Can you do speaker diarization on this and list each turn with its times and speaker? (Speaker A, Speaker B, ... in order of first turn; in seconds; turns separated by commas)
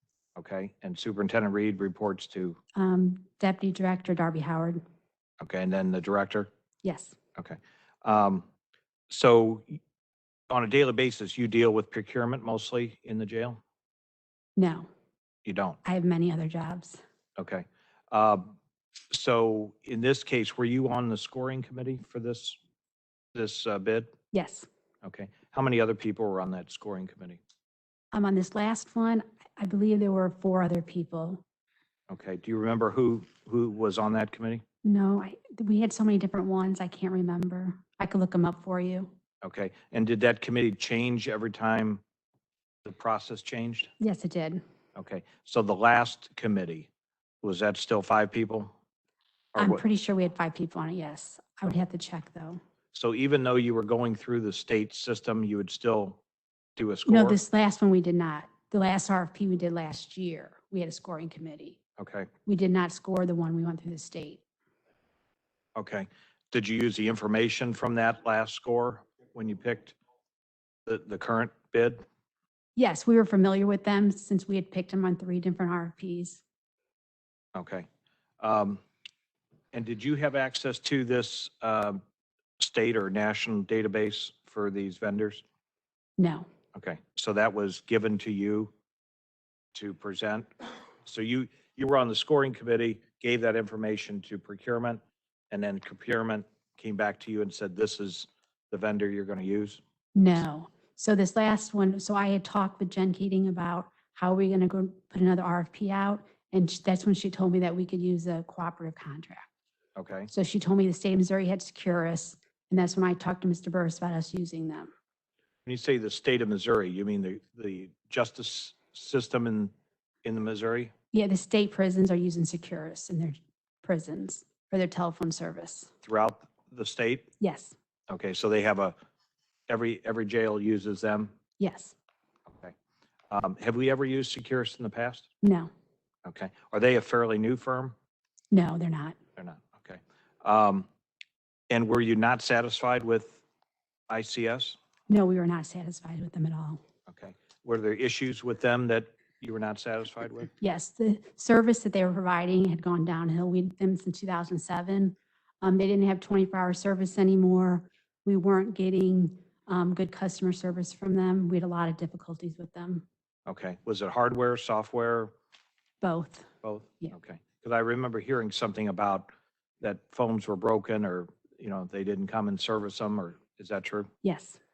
Speaker A: 0.4-2.6, Speaker B: 2.8-4.8, Speaker A: 5.4-6.5, Speaker B: 6.8-7.2, Speaker A: 7.4-8.5, Speaker A: 9.1-9.8, Speaker A: 10.5-13.6, Speaker B: 14.6-14.9, Speaker A: 15.4-15.8, Speaker B: 15.8-17.0, Speaker A: 17.4-18.5, Speaker A: 19.1-22.6, Speaker A: 23.3-24.1, Speaker B: 24.3-24.7, Speaker A: 25.0-27.4, Speaker B: 28.1-31.4, Speaker A: 32.1-34.6, Speaker B: 34.8-39.1, Speaker A: 39.4-42.0, Speaker A: 42.8-43.9, Speaker B: 44.0-44.6, Speaker A: 45.0-46.9, Speaker A: 47.4-48.7, Speaker A: 49.6-49.8, Speaker B: 49.6-52.6, Speaker A: 52.9-56.2, Speaker A: 56.8-57.4, Speaker B: 57.1-61.8, Speaker A: 62.0-62.3, Speaker B: 62.5-64.4, Speaker A: 65.8-70.0, Speaker A: 70.9-72.0, Speaker B: 72.8-76.4, Speaker A: 77.5-77.9, Speaker A: 78.4-78.8, Speaker A: 79.7-82.0, Speaker A: 82.6-85.4, Speaker B: 86.2-86.5, Speaker A: 86.7-88.7, Speaker A: 89.7-90.5, Speaker A: 91.0-95.0, Speaker A: 95.5-99.8, Speaker B: 100.2-109.5, Speaker A: 110.0-110.3, Speaker B: 110.3-114.9, Speaker A: 115.7-119.7, Speaker A: 120.2-120.9, Speaker B: 121.1-125.9, Speaker A: 126.0-127.3, Speaker B: 127.4-127.8, Speaker A: 128.1-128.9, Speaker A: 129.7-131.3, Speaker B: 131.6-131.9, Speaker A: 132.5-132.7, Speaker A: 133.3-135.3, Speaker B: 135.4-135.7, Speaker A: 136.2-137.9, Speaker B: 138.5-139.2, Speaker A: 139.4-140.9, Speaker A: 141.7-143.4, Speaker A: 144.1-144.8, Speaker B: 145.1-146.8, Speaker A: 147.1-150.5, Speaker B: 150.6-163.1, Speaker A: 163.5-165.3, Speaker B: 166.0-166.5, Speaker A: 166.6-169.3, Speaker A: 169.8-174.1, Speaker B: 174.2-174.6